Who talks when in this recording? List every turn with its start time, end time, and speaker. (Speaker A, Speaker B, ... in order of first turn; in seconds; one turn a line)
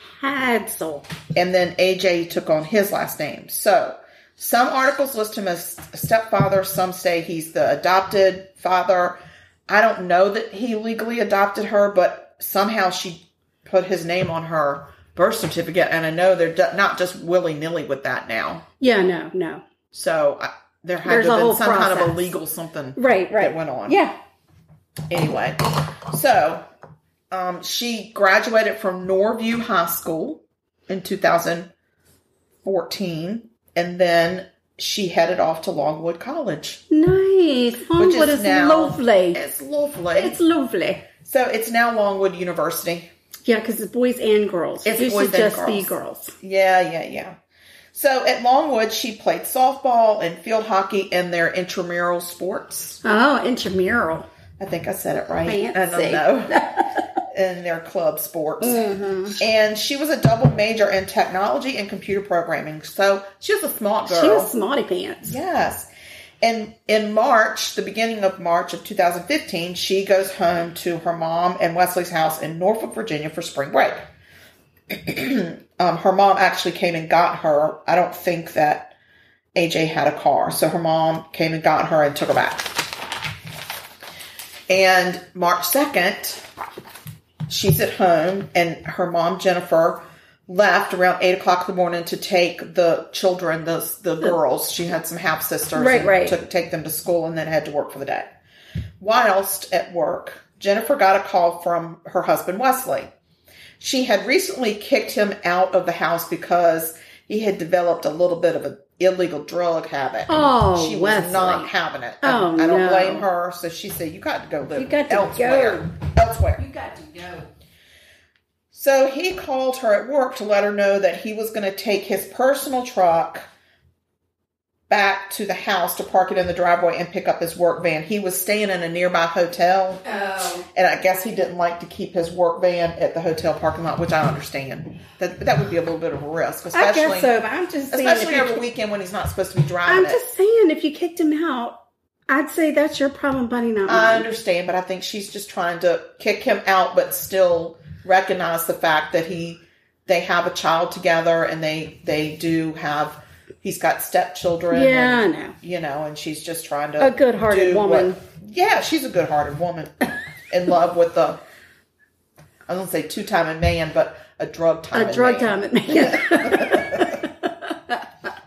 Speaker A: 0.1-1.1
Speaker B: 1.3-18.6
Speaker A: 18.8-19.6
Speaker B: 19.9-24.0
Speaker A: 21.1-22.3
Speaker A: 23.0-24.1
Speaker B: 25.1-26.7
Speaker B: 27.3-31.7
Speaker B: 32.6-36.8
Speaker A: 36.9-39.4
Speaker B: 38.0-40.4
Speaker A: 40.1-41.1
Speaker B: 41.2-43.1
Speaker A: 43.5-46.3
Speaker B: 44.9-47.4
Speaker B: 47.9-53.0
Speaker A: 53.0-54.3
Speaker B: 54.6-64.5
Speaker A: 55.5-57.0
Speaker A: 58.6-59.4
Speaker A: 64.1-65.4
Speaker B: 65.2-65.9
Speaker B: 66.4-74.1
Speaker B: 74.9-78.9
Speaker B: 79.5-82.9
Speaker B: 84.7-86.5
Speaker B: 87.5-98.4
Speaker A: 95.8-96.4
Speaker B: 99.0-103.1
Speaker B: 103.8-116.6
Speaker A: 110.3-113.3
Speaker A: 114.8-115.9
Speaker A: 116.6-117.5
Speaker B: 118.7-123.5
Speaker B: 124.9-130.0
Speaker A: 130.1-130.7
Speaker B: 130.7-137.3
Speaker A: 136.7-138.6
Speaker B: 137.9-140.2
Speaker A: 139.9-144.3
Speaker B: 143.9-159.9
Speaker A: 154.7-155.6
Speaker A: 157.0-158.2
Speaker B: 160.5-161.4
Speaker B: 162.7-167.2
Speaker A: 164.9-168.0